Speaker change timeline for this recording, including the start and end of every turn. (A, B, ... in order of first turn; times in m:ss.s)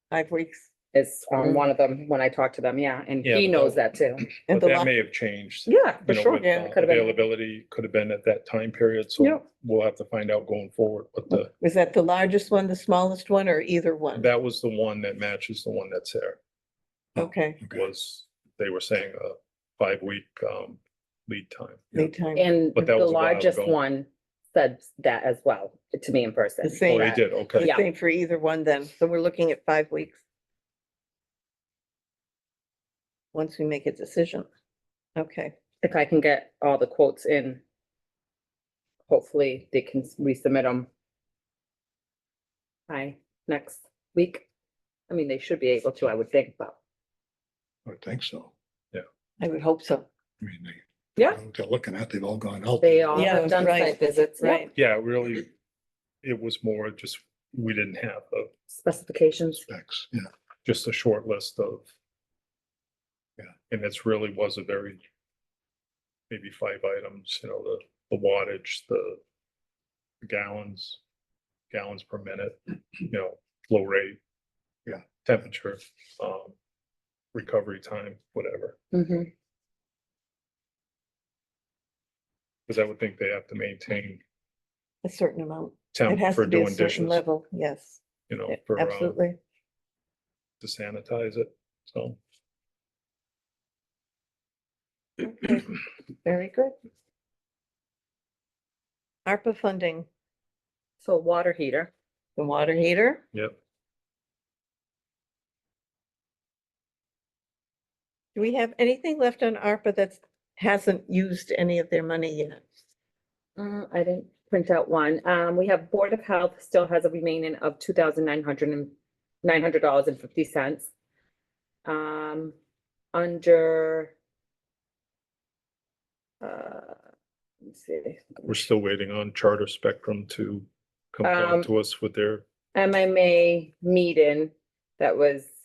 0:00.1-0:00.7 A
0:00.9-0:04.2 B
0:03.2-0:11.5 C
0:04.5-0:04.9 A
0:05.6-0:07.2 B
0:06.1-0:06.7 A
0:11.6-0:14.3 A
0:14.1-0:16.4 C
0:17.2-0:17.6 A
0:17.6-0:21.9 C
0:21.9-0:22.5 A
0:22.3-0:27.8 B
0:22.7-0:23.8 C
0:26.6-0:30.2 A
0:26.9-0:27.7 C
0:33.3-0:34.5 A
0:35.2-0:35.5 A
0:35.8-0:37.6 B
0:39.1-0:40.9 B
0:42.9-0:44.4 B
0:45.1-0:46.8 B
0:47.8-0:48.5 D
0:49.4-0:50.0 A
0:50.4-0:53.5 D
0:52.8-0:54.7 B
0:53.1-0:54.7 A
0:54.7-0:55.5 C
0:56.2-0:58.5 C
0:58.7-0:59.6 B
0:59.7-1:00.3 D
1:00.6-1:01.9 C
1:03.7-1:05.0 C
1:06.3-1:09.2 C
1:10.2-1:11.0 C
1:11.7-1:14.2 C
1:14.9-1:16.6 C
1:17.3-1:18.8 C
1:18.9-1:19.3 B
1:22.7-1:24.2 C
1:25.0-1:29.4 A
1:25.9-1:27.2 C
1:28.3-1:29.2 C
1:30.6-1:32.2 C
1:35.2-1:36.7 A
1:39.2-1:40.1 A
1:41.0-1:41.9 B
1:42.4-1:43.2 A
1:48.3-1:52.6 A
1:53.6-2:00.9 B
2:01.8-2:02.5 B
2:03.1-2:04.1 B
2:06.4-2:07.0 B
2:07.6-2:08.4 B
2:08.4-2:12.4 C
2:11.2-2:11.7 B
2:12.7-2:15.5 B